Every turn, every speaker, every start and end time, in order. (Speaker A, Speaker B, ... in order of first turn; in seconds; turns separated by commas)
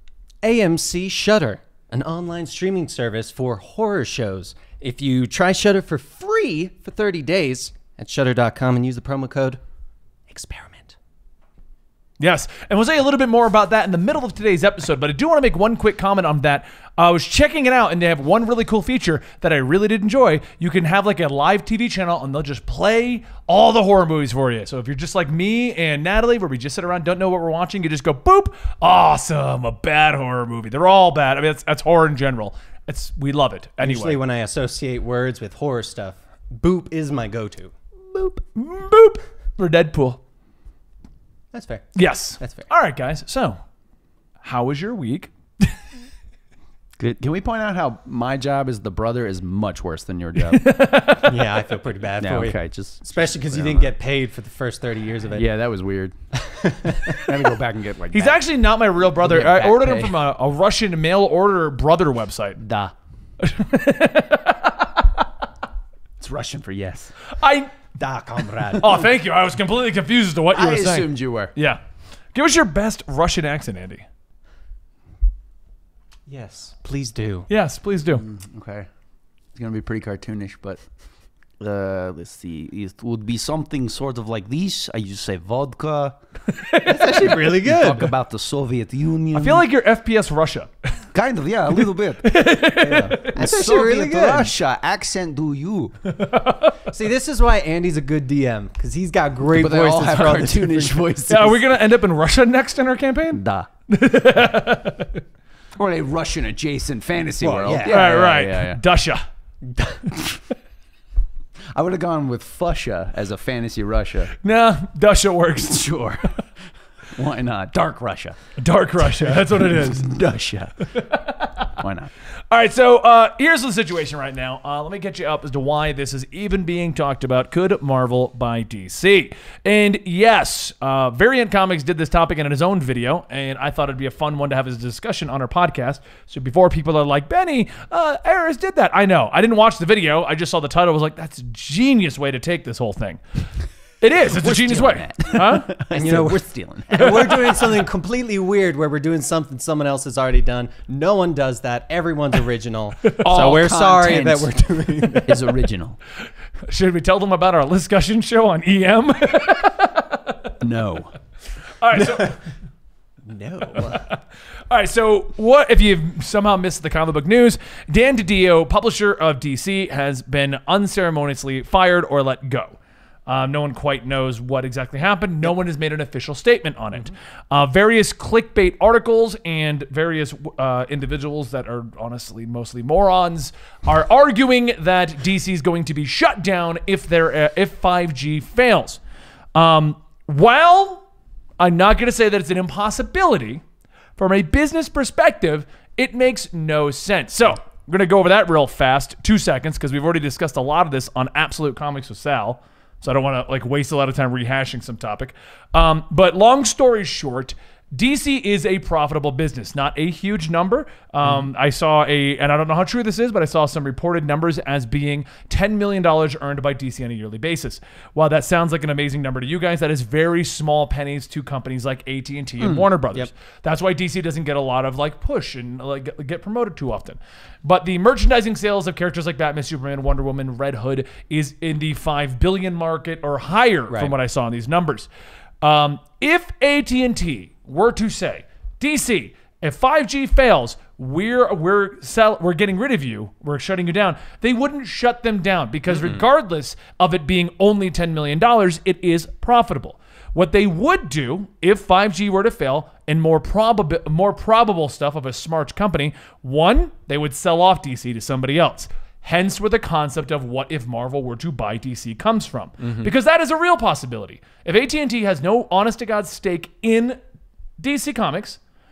Speaker A: 0.4-9.6, Speaker A: 10.3-10.9, Speaker B: 12.2-34.2, Speaker A: 33.8-37.7, Speaker B: 38.1-40.2, Speaker A: 41.5-42.7, Speaker B: 42.0-43.6, Speaker B: 44.4-45.8, Speaker C: 47.0-50.6, Speaker B: 50.4-51.4, Speaker A: 51.2-55.5, Speaker C: 52.2-53.9, Speaker C: 55.3-56.1, Speaker A: 56.3-57.4, Speaker C: 57.0-58.4, Speaker B: 58.1-62.6, Speaker C: 59.2-60.1, Speaker C: 62.6-62.9, Speaker B: 63.4-65.2, Speaker C: 66.2-67.1, Speaker B: 67.3-67.7, Speaker A: 68.0-69.0, Speaker B: 68.7-71.8, Speaker C: 70.5-71.5, Speaker B: 72.3-74.0, Speaker A: 76.3-77.5, Speaker B: 77.5-78.2, Speaker C: 78.2-78.9, Speaker C: 79.5-80.8, Speaker C: 81.6-86.2, Speaker B: 86.5-87.5, Speaker A: 86.8-88.1, Speaker C: 87.2-89.7, Speaker B: 89.3-91.0, Speaker C: 91.1-92.2, Speaker B: 91.7-93.4, Speaker C: 92.8-95.9, Speaker A: 93.2-94.5, Speaker B: 96.0-96.8, Speaker A: 96.9-101.1, Speaker C: 99.5-101.6, Speaker B: 101.3-105.2, Speaker C: 103.3-103.7, Speaker C: 105.7-108.8, Speaker A: 107.4-108.2, Speaker B: 107.9-109.2, Speaker C: 111.7-114.3, Speaker B: 114.4-116.1, Speaker C: 115.7-116.3, Speaker C: 117.1-118.4, Speaker B: 118.6-120.1, Speaker C: 119.1-120.7, Speaker B: 120.9-121.7, Speaker C: 121.7-122.1, Speaker B: 122.5-143.2, Speaker B: 144.0-145.8, Speaker C: 144.2-147.6, Speaker A: 145.9-155.6, Speaker B: 146.9-147.5, Speaker C: 153.2-156.0, Speaker B: 156.7-160.5, Speaker C: 160.6-161.1, Speaker B: 161.8-162.4, Speaker A: 163.2-164.0, Speaker B: 163.7-189.0, Speaker B: 189.5-191.0, Speaker B: 191.6-193.6, Speaker B: 194.2-235.1, Speaker C: 222.6-222.8, Speaker B: 235.6-267.2, Speaker A: 262.8-263.1, Speaker B: 267.8-268.6